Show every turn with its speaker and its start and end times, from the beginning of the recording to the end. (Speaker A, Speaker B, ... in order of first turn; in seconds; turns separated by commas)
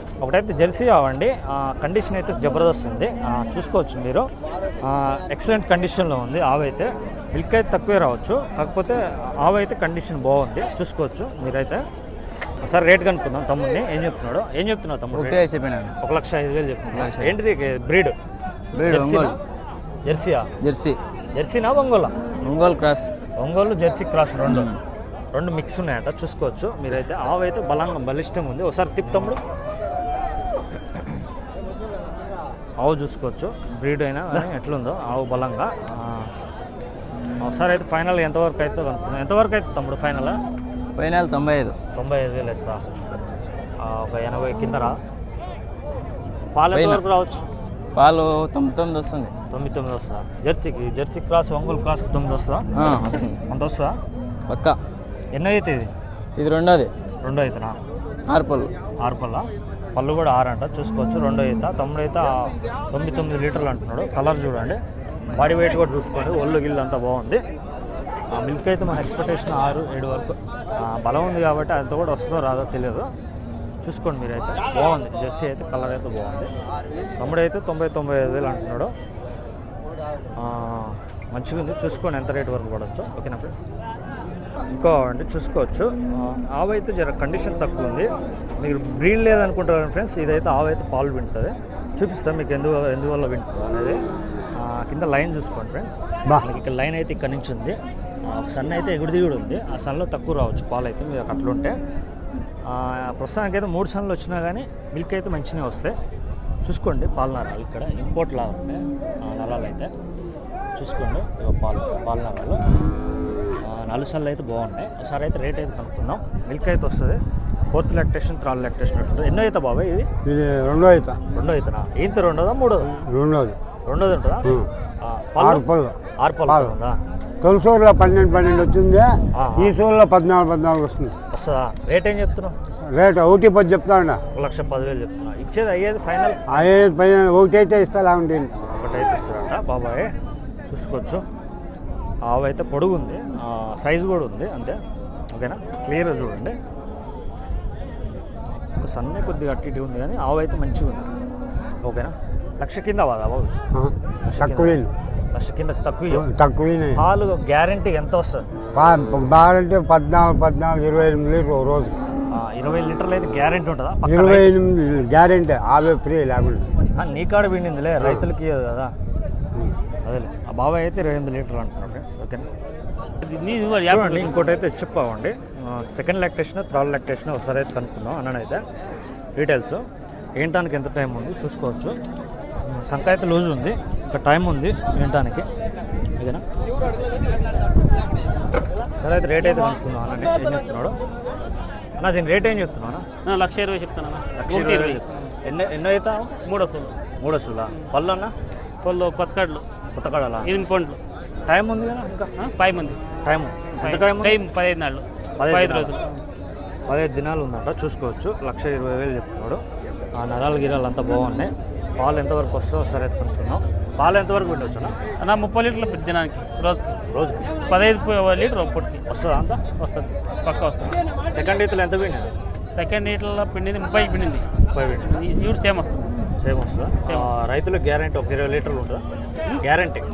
Speaker A: 0.2-4.3, Speaker A: 4.8-11.8, Speaker A: 12.6-15.4, Speaker B: 15.1-15.9, Speaker A: 16.0-18.1, Speaker B: 16.9-17.4, Speaker B: 18.7-19.3, Speaker A: 18.9-19.4, Speaker A: 20.0-20.5, Speaker B: 20.6-21.0, Speaker A: 21.4-22.1, Speaker B: 22.4-23.1, Speaker A: 23.4-24.7, Speaker B: 24.5-24.8, Speaker A: 25.3-29.4, Speaker A: 32.8-36.3, Speaker A: 37.4-40.4, Speaker B: 41.0-41.8, Speaker A: 41.9-43.0, Speaker A: 43.8-45.0, Speaker A: 46.5-47.4, Speaker B: 46.7-47.0, Speaker B: 47.9-49.3, Speaker A: 49.5-52.7, Speaker B: 52.7-53.4, Speaker A: 53.5-54.0, Speaker B: 54.5-54.8, Speaker A: 55.3-55.9, Speaker B: 56.4-56.9, Speaker A: 57.2-57.8, Speaker B: 58.3-58.7, Speaker A: 59.0-64.8, Speaker A: 65.3-67.4, Speaker A: 68.3-73.1, Speaker A: 73.8-76.5, Speaker A: 77.2-79.0, Speaker A: 80.4-83.6, Speaker A: 84.7-88.1, Speaker A: 88.6-94.0, Speaker A: 94.6-101.8, Speaker A: 102.7-106.0, Speaker A: 106.6-109.9, Speaker A: 110.8-112.6, Speaker A: 113.6-117.2, Speaker A: 117.7-120.1, Speaker C: 120.2-121.2, Speaker A: 121.3-123.0, Speaker C: 123.0-123.6, Speaker A: 123.8-124.5, Speaker A: 125.0-125.7, Speaker C: 125.4-126.0, Speaker A: 126.2-127.0, Speaker C: 126.5-126.7, Speaker C: 127.4-131.2, Speaker A: 129.3-129.8, Speaker A: 131.3-132.6, Speaker C: 132.8-134.2, Speaker A: 134.3-136.4, Speaker C: 136.5-138.5, Speaker A: 138.8-140.2, Speaker A: 140.7-141.2, Speaker A: 142.2-144.8, Speaker A: 145.3-146.6, Speaker A: 148.5-151.1, Speaker A: 151.8-153.6, Speaker C: 153.7-154.9, Speaker A: 154.2-154.8, Speaker A: 155.3-156.3, Speaker C: 156.1-157.0, Speaker A: 156.9-158.5, Speaker C: 158.7-161.9, Speaker A: 162.3-164.5, Speaker C: 164.1-166.7, Speaker A: 166.9-168.9, Speaker A: 170.0-172.5, Speaker D: 173.2-174.5, Speaker A: 173.8-178.7, Speaker A: 179.3-179.8, Speaker A: 180.4-182.0, Speaker A: 182.6-185.5, Speaker A: 189.0-191.0, Speaker A: 192.0-193.1, Speaker D: 193.2-195.3, Speaker A: 194.3-196.3, Speaker D: 196.4-197.0, Speaker A: 197.2-198.3, Speaker D: 198.8-199.7, Speaker A: 199.9-200.5, Speaker D: 200.4-201.0, Speaker A: 201.5-202.3, Speaker D: 202.4-203.0, Speaker A: 203.2-204.4, Speaker D: 203.8-206.2, Speaker A: 205.4-205.9, Speaker A: 206.9-209.6, Speaker A: 210.2-215.0, Speaker D: 215.2-217.0, Speaker A: 217.1-217.5, Speaker D: 217.7-219.0, Speaker A: 219.1-219.6, Speaker D: 219.7-221.0, Speaker A: 221.3-222.3, Speaker D: 222.7-224.5, Speaker A: 224.7-225.2, Speaker D: 225.1-226.1, Speaker A: 226.3-229.0, Speaker D: 227.0-227.3, Speaker A: 229.6-230.1